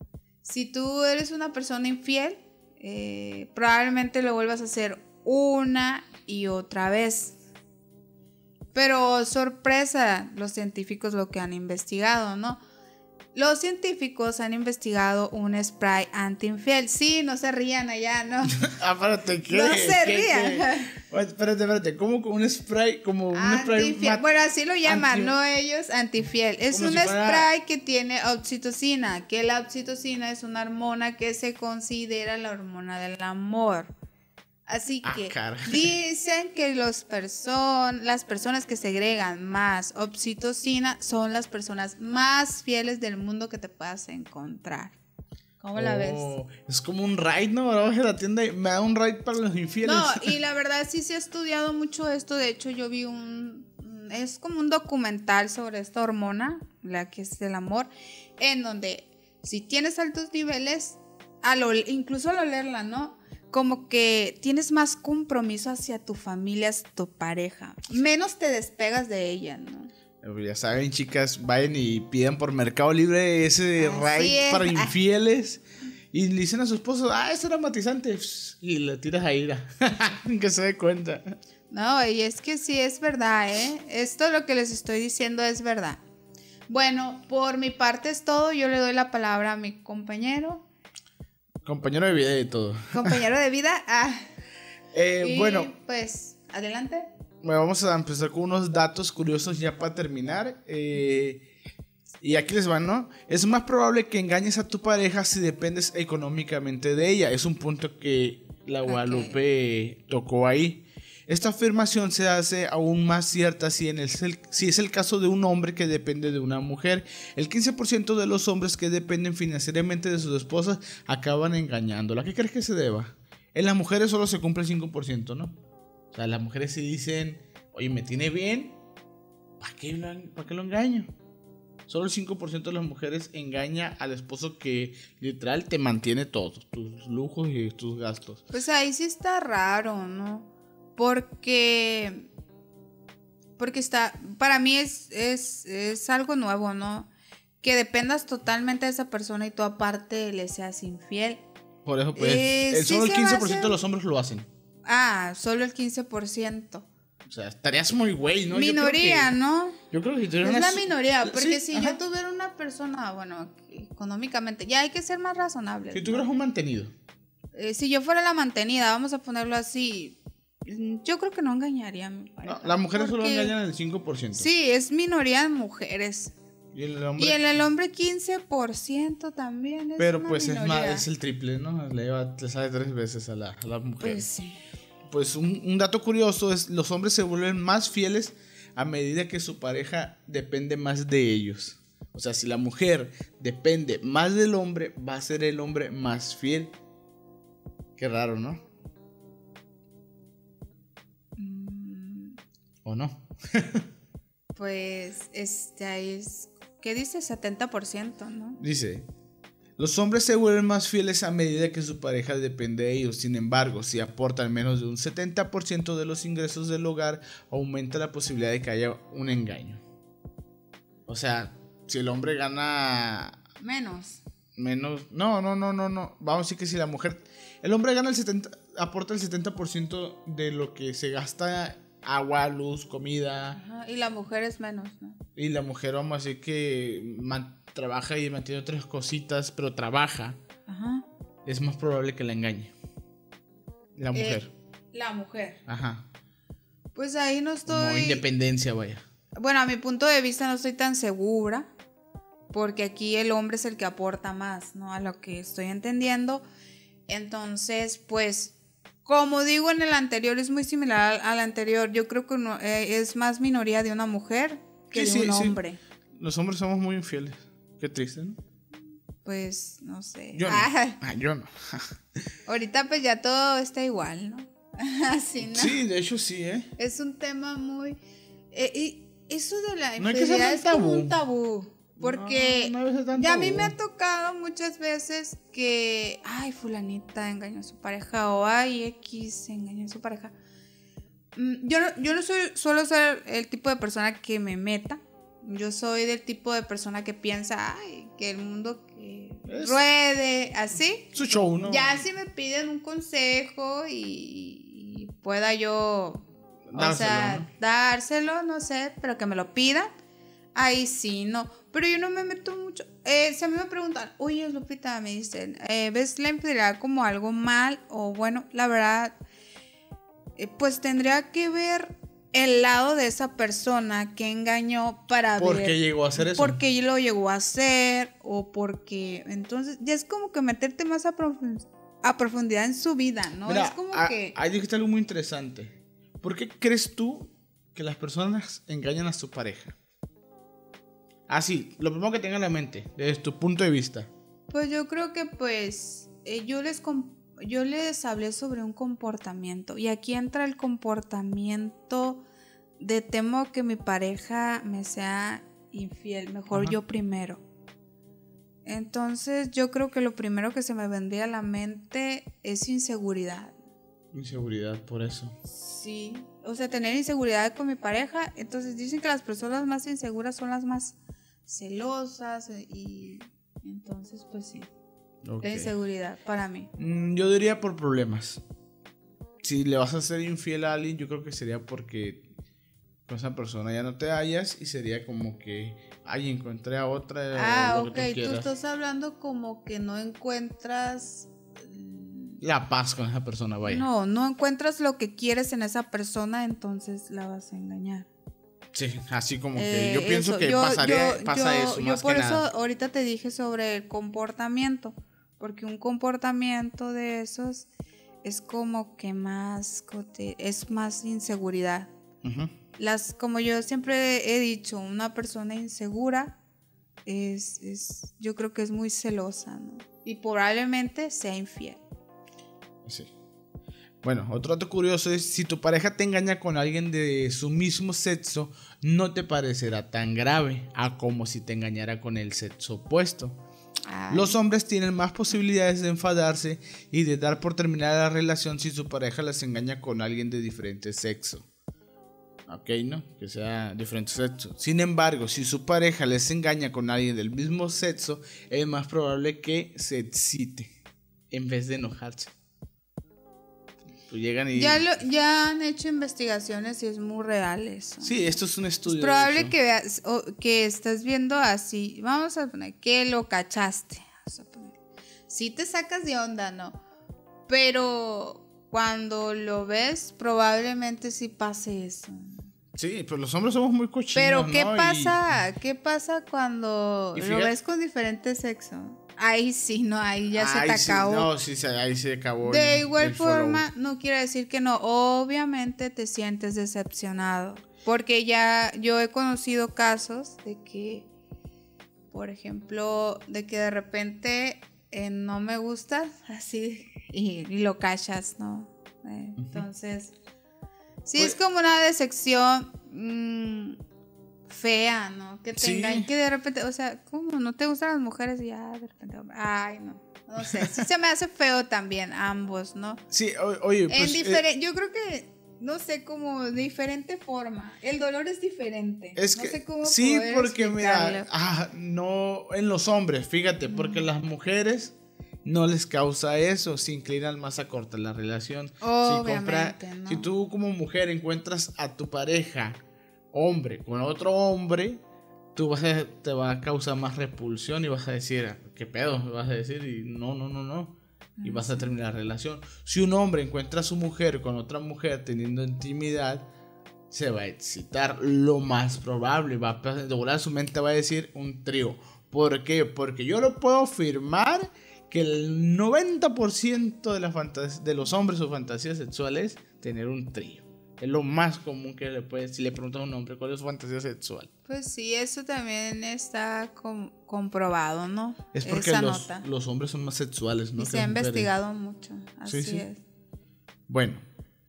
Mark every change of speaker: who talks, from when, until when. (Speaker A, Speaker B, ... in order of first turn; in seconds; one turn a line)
Speaker A: 0.4-7.4
Speaker A: 8.7-12.6
Speaker A: 13.3-18.6
Speaker B: 18.6-24.2
Speaker A: 19.5-20.9
Speaker A: 23.3-33.9
Speaker B: 24.8-25.3
Speaker B: 26.7-27.5
Speaker A: 34.7-45.0
Speaker B: 35.0-35.9
Speaker A: 45.6-46.3
Speaker B: 45.7-50.3
Speaker A: 49.8-69.9
Speaker B: 70.2-81.3
Speaker A: 73.8-74.9
Speaker A: 81.7-86.0
Speaker A: 86.7-90.7
Speaker B: 91.6-93.2
Speaker A: 92.9-94.3
Speaker B: 94.9-95.7
Speaker A: 95.2-97.1
Speaker B: 97.4-101.5
Speaker B: 102.2-125.5
Speaker A: 108.8-109.3
Speaker B: 126.1-128.8
Speaker B: 129.6-131.1
Speaker B: 131.9-138.4
Speaker A: 138.5-142.3
Speaker A: 143.6-147.1
Speaker A: 147.6-151.4
Speaker B: 151.8-154.5
Speaker A: 152.2-153.8
Speaker A: 154.8-156.8
Speaker B: 157.2-159.3
Speaker A: 158.5-159.8
Speaker B: 159.9-162.0
Speaker A: 160.4-166.2
Speaker B: 165.9-166.9
Speaker A: 167.5-173.6
Speaker B: 172.4-174.5
Speaker A: 174.3-176.3
Speaker B: 176.7-177.4
Speaker A: 177.2-181.1
Speaker B: 180.0-184.3
Speaker A: 184.0-184.6
Speaker B: 185.1-196.7
Speaker B: 198.0-198.6
Speaker A: 201.4-202.4
Speaker B: 202.8-203.8
Speaker A: 204.5-208.6
Speaker B: 208.6-209.1
Speaker B: 209.8-219.8
Speaker B: 221.1-223.4
Speaker A: 223.6-224.2
Speaker B: 224.6-233.6
Speaker A: 233.5-235.2
Speaker B: 235.3-240.4
Speaker A: 240.7-241.0
Speaker B: 241.4-242.7
Speaker B: 243.9-244.5
Speaker A: 244.1-244.4
Speaker A: 244.9-245.6
Speaker B: 245.7-246.0
Speaker A: 246.9-248.2
Speaker B: 247.7-249.0
Speaker A: 249.3-251.7
Speaker A: 252.5-256.4
Speaker A: 257.1-265.8
Speaker B: 264.9-265.6
Speaker B: 266.1-268.4
Speaker A: 269.2-271.0
Speaker B: 270.3-271.9
Speaker A: 272.5-275.8
Speaker B: 275.4-276.7
Speaker A: 276.8-278.0
Speaker A: 278.5-290.3
Speaker B: 280.0-281.1
Speaker B: 282.0-283.7
Speaker A: 291.3-309.9
Speaker B: 299.5-299.8
Speaker B: 301.1-302.0
Speaker B: 306.7-307.5
Speaker A: 310.5-319.1
Speaker A: 320.4-334.4
Speaker B: 325.4-326.6
Speaker B: 333.4-339.8
Speaker B: 341.3-344.1
Speaker A: 344.5-352.2
Speaker A: 352.8-357.4
Speaker A: 358.6-363.6
Speaker B: 364.1-365.3
Speaker A: 365.5-370.9
Speaker A: 371.5-374.7
Speaker B: 375.2-375.7
Speaker A: 375.4-376.7
Speaker B: 376.8-378.4
Speaker B: 379.4-382.2
Speaker B: 383.1-388.5
Speaker A: 387.3-392.4
Speaker B: 392.4-393.9
Speaker A: 393.6-398.1
Speaker B: 398.7-402.4
Speaker A: 399.5-407.7
Speaker A: 408.2-411.9
Speaker B: 412.2-412.5
Speaker A: 412.8-416.4
Speaker A: 417.1-421.8
Speaker B: 422.9-423.1
Speaker B: 424.0-433.4
Speaker A: 433.9-434.4
Speaker B: 434.1-441.5
Speaker B: 442.5-450.7
Speaker B: 451.3-452.3
Speaker B: 454.1-454.9
Speaker A: 454.5-464.8
Speaker B: 458.0-459.5
Speaker A: 465.3-466.8
Speaker A: 467.5-472.5
Speaker B: 472.7-475.2
Speaker A: 474.1-481.3
Speaker B: 477.1-477.5
Speaker B: 480.3-483.6
Speaker A: 482.4-491.1
Speaker A: 492.1-500.1
Speaker B: 499.4-499.6
Speaker A: 501.0-503.8
Speaker A: 504.5-513.0
Speaker B: 505.6-506.1
Speaker B: 513.1-514.4
Speaker A: 513.9-521.3
Speaker B: 519.1-532.8
Speaker A: 523.7-524.0
Speaker A: 528.8-530.3
Speaker B: 533.3-535.0
Speaker B: 535.5-546.4
Speaker A: 541.4-541.9
Speaker B: 547.1-564.5
Speaker A: 564.7-569.5
Speaker B: 568.5-571.5
Speaker A: 570.8-573.0
Speaker B: 572.5-572.8
Speaker B: 573.9-574.2